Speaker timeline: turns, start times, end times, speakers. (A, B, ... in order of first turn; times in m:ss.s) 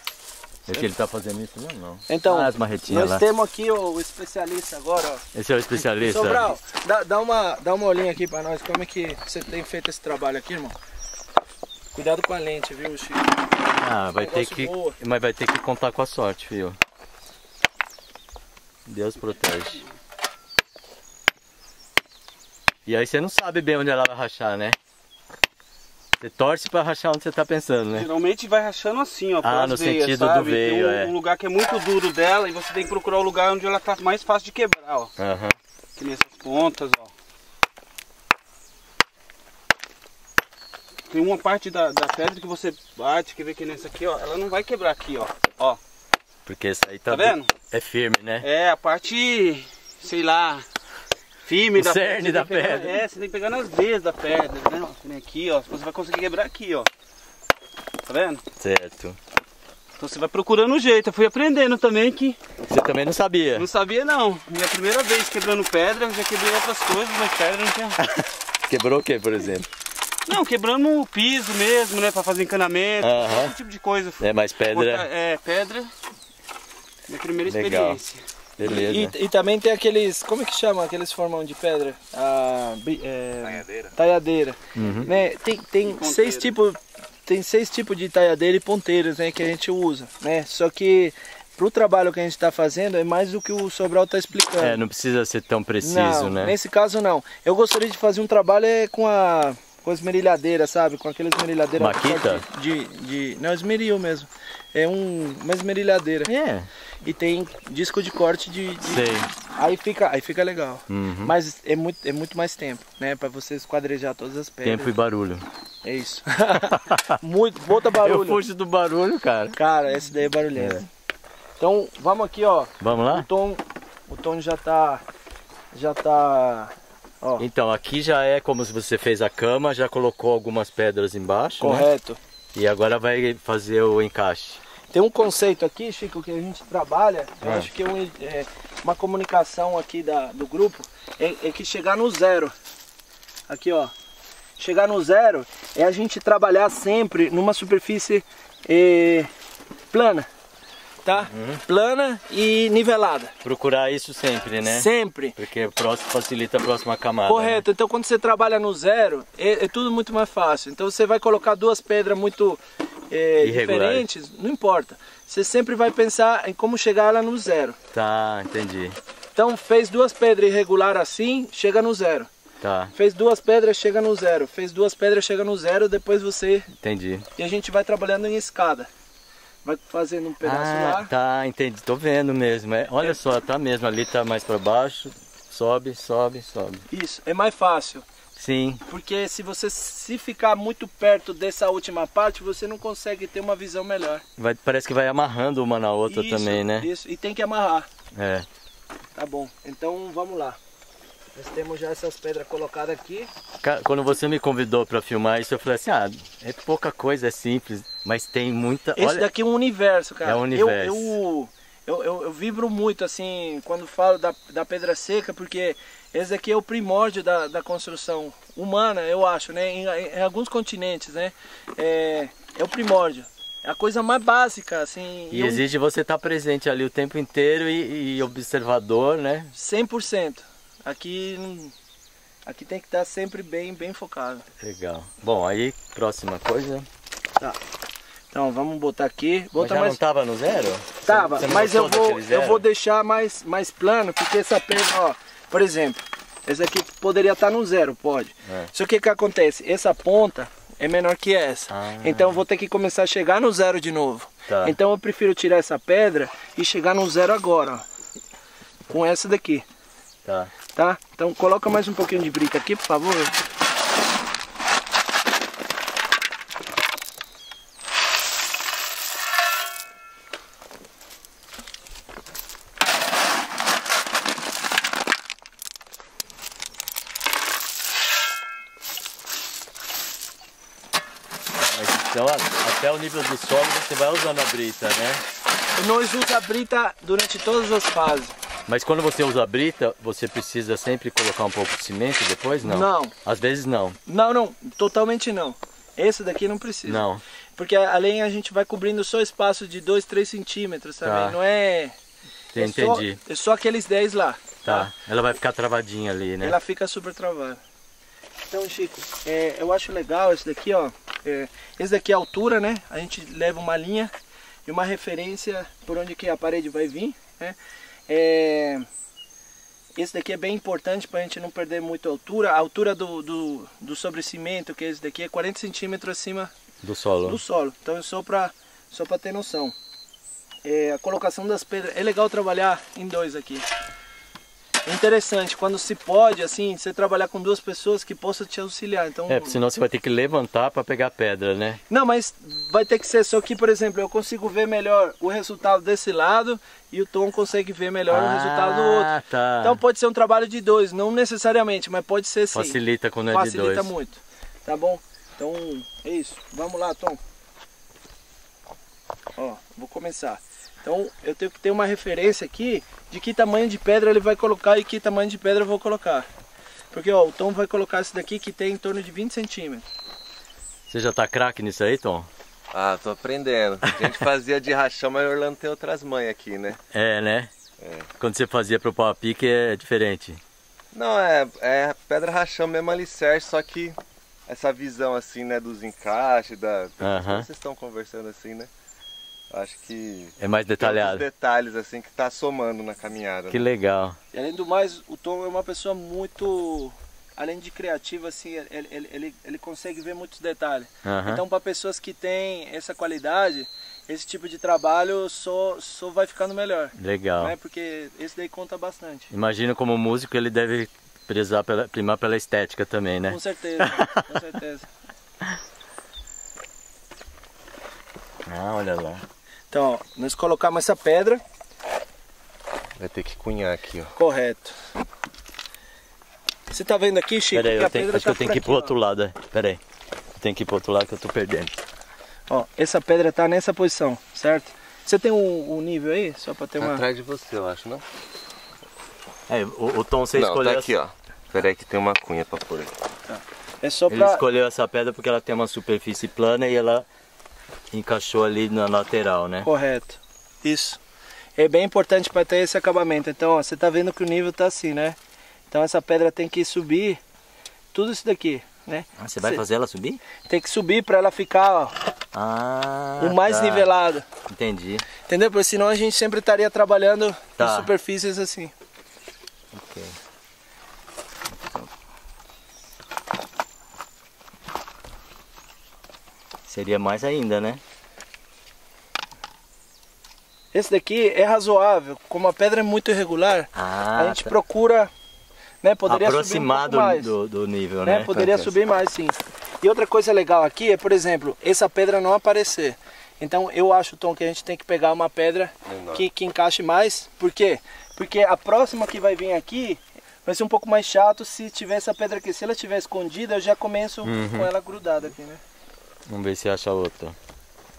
0:00.7-0:03.2 A
0:02.1-0:05.2 B
0:05.3-0:06.5 A
0:05.8-0:10.8 B
0:11.9-0:13.4 B
0:13.7-0:16.8 A
0:14.2-0:15.0 B
0:18.8-0:19.8 A
0:22.8-0:24.8 A
0:26.2-0:28.1 A
0:27.9-0:35.1 C
0:29.4-0:31.1 A
0:35.2-0:35.6 A
0:36.0-0:37.1 C
0:41.1-0:45.8 C
0:46.4-0:48.4 A
0:47.1-0:47.5 C
0:48.4-0:50.6 C
0:51.4-0:56.9 C
0:51.7-0:53.0 A
0:58.0-0:58.4 C
0:58.6-0:59.2 A
1:00.0-1:02.4 C
1:02.7-1:03.7 A
1:03.6-1:08.0 C
1:08.0-1:09.7 A
1:10.3-1:15.9 C
1:13.0-1:13.6 A
1:14.2-1:15.1 A
1:17.1-1:18.2 C
1:17.4-1:18.0 A
1:18.6-1:19.1 A
1:18.6-1:34.8 B
1:23.6-1:23.9 C
1:24.7-1:25.1 A
1:25.8-1:26.5 C
1:34.6-1:36.6 A
1:35.8-1:46.3 B
1:41.8-1:42.4 A
1:46.2-1:46.7 A
1:47.0-1:54.9 B
1:48.9-1:49.3 A
1:50.9-1:51.3 A
1:54.6-1:55.4 A
1:55.8-1:58.4 B
1:56.7-1:57.2 A
1:57.9-1:59.6 A
1:59.6-2:00.9 B
2:00.6-2:00.8 A
2:01.6-2:05.0 B
2:02.8-2:03.3 A
2:05.7-2:07.4 B
2:07.4-2:11.9 A
2:11.6-2:12.2 B
2:12.5-2:14.6 A
2:14.9-2:22.5 B
2:17.4-2:17.7 A
2:23.5-2:23.9 B
2:24.6-2:29.3 B
2:29.9-2:30.3 B
2:31.0-2:33.3 B
2:31.3-2:31.6 A
2:33.4-2:37.6 A
2:34.6-2:35.4 B
2:37.2-2:47.8 B
2:43.4-2:44.1 A
2:47.9-2:49.0 A
2:49.4-2:52.3 B
2:52.6-2:52.9 A
2:52.9-2:56.7 B
2:56.8-2:57.3 A
2:57.4-2:58.9 B
2:59.6-3:01.1 B
3:00.4-3:06.8 A
3:06.9-3:08.0 B
3:08.4-3:08.8 A
3:08.9-3:14.2 B
3:14.4-3:16.9 A
3:16.1-3:17.9 B
3:18.1-3:18.5 A
3:19.2-3:20.6 B
3:21.3-3:23.3 B
3:23.6-3:29.3 A
3:29.0-3:45.6 B
3:30.2-3:31.2 A
3:45.3-3:49.5 A
3:49.5-3:51.7 B
3:52.4-3:54.4 B
3:54.6-3:56.9 A
3:58.3-4:00.0 B
3:59.6-4:02.6 A
4:01.0-4:17.8 B
4:11.7-4:12.4 A
4:14.5-4:14.8 A
4:18.9-4:19.6 B
4:20.2-4:20.5 A
4:20.7-4:23.3 B
4:41.6-4:45.2 A
4:45.7-4:48.3 B
4:48.7-4:54.0 A
4:52.6-4:53.1 B
4:54.1-4:57.0 B
4:56.8-4:57.2 A
4:57.6-5:01.9 B
5:01.0-5:01.4 A
5:02.5-5:03.2 A
5:02.6-5:04.9 B
5:04.6-5:06.6 A
5:06.4-5:07.6 B
5:08.5-5:14.1 B
5:14.6-5:17.6 B
5:18.1-5:18.8 B
5:20.0-5:26.5 B
5:26.8-5:27.4 A
5:27.2-5:29.7 B
5:30.6-5:33.7 B
5:34.8-5:39.6 B
5:39.3-5:41.8 A
5:41.9-5:57.2 B
5:48.1-5:49.8 A
5:52.5-5:53.9 A
5:59.4-6:06.3 B
6:06.9-6:09.8 B
6:10.9-6:12.3 A
6:12.7-6:16.8 D
6:16.9-6:17.5 A
6:17.8-6:18.1 D
6:18.2-6:20.4 A
6:20.9-6:28.7 D
6:27.0-6:27.5 A
6:29.5-6:33.6 D
6:30.4-6:31.2 A
6:33.5-6:34.2 A
6:34.3-6:49.3 B
6:41.0-6:41.4 A
6:47.0-6:47.5 A
6:49.3-6:54.2 A
6:53.3-6:54.9 B
6:58.4-6:59.2 A
6:59.7-7:01.4 B
7:03.0-7:04.1 D
7:04.1-7:04.8 B
7:06.7-7:08.9 B
7:07.5-7:09.8 A
7:10.4-7:11.8 A
7:12.5-7:17.0 B
7:16.8-7:18.0 D
7:19.5-7:20.9 A
7:20.3-7:23.0 D
7:23.3-7:24.4 B
7:24.1-7:27.0 A
7:27.9-7:29.7 A
7:29.6-7:31.0 B
7:31.6-7:35.2 B
7:35.7-7:37.2 B
7:37.9-7:39.6 B
7:39.2-7:40.2 A
7:40.4-7:41.9 B
7:42.3-7:43.9 A
7:43.2-7:44.2 B
7:44.5-7:45.1 A
7:45.2-7:48.7 B
7:47.6-7:47.9 A
7:49.7-7:50.2 A
7:51.5-7:51.9 A
7:56.7-7:57.8 A
8:00.7-8:05.1 B
8:03.7-8:04.5 A
8:05.8-8:07.3 B
8:06.1-8:08.7 A
8:08.0-8:25.6 B
8:15.9-8:16.2 D
8:24.2-8:24.7 A
8:26.3-8:27.4 A